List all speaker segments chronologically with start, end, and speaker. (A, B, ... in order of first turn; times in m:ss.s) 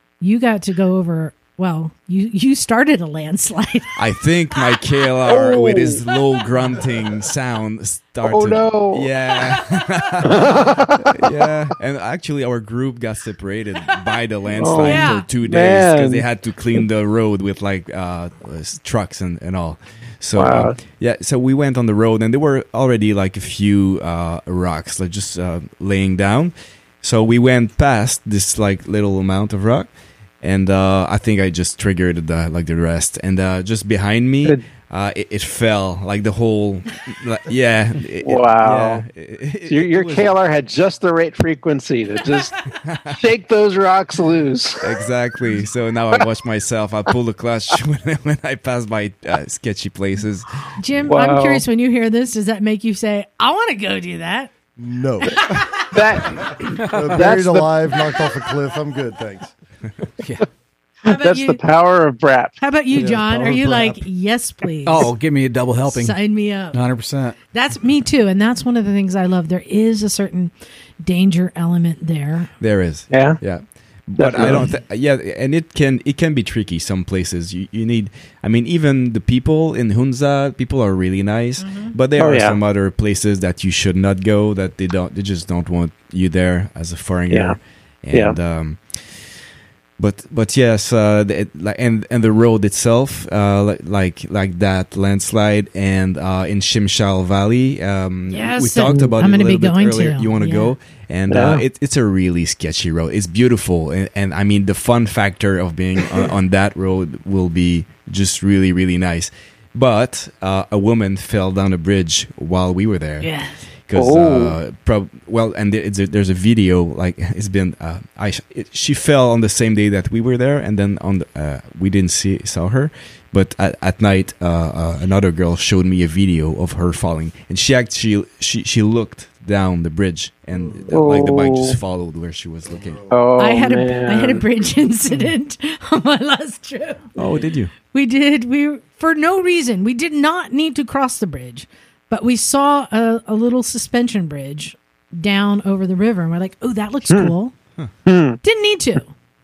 0:00.2-0:04.0 A
0:04.0-0:29.9 B
0:05.3-0:06.0 C
0:08.2-0:09.1 C
0:10.2-0:11.2 C
0:14.6-0:16.3 C
0:14.7-0:15.3 A
0:20.4-0:20.8 C
0:30.4-0:40.4 B
0:38.2-0:39.0 C
0:39.7-0:44.8 C
0:42.8-0:43.2 B
0:44.8-0:50.8 B
0:50.8-0:54.5 A
0:51.1-0:51.6 C
0:54.8-0:55.6 D
0:55.2-0:56.0 A
0:55.9-0:57.8 C
0:56.8-0:59.5 D
1:00.2-1:00.5 E
1:01.0-1:01.6 A
1:01.0-1:02.6 C
1:02.6-1:05.1 A
1:02.9-1:04.0 D
1:04.8-1:06.2 E
1:05.9-1:06.9 A
1:06.7-1:07.4 E
1:07.5-1:12.5 A
1:12.6-1:29.2 B
1:13.1-1:13.4 C
1:14.2-1:14.7 C
1:21.6-1:22.0 A
1:22.2-1:22.6 C
1:27.3-1:27.6 C
1:28.1-1:28.4 C
1:30.0-1:53.3 B
1:38.3-1:40.8 A
1:41.3-1:41.6 C
1:53.2-1:53.6 A
1:53.9-2:13.1 B
1:53.9-1:54.6 C
2:10.9-2:11.8 C
2:13.1-2:14.4 C
2:13.4-2:17.1 A
2:17.2-2:17.7 B
2:17.9-2:27.6 A
2:28.1-2:28.4 C
2:28.4-2:29.1 A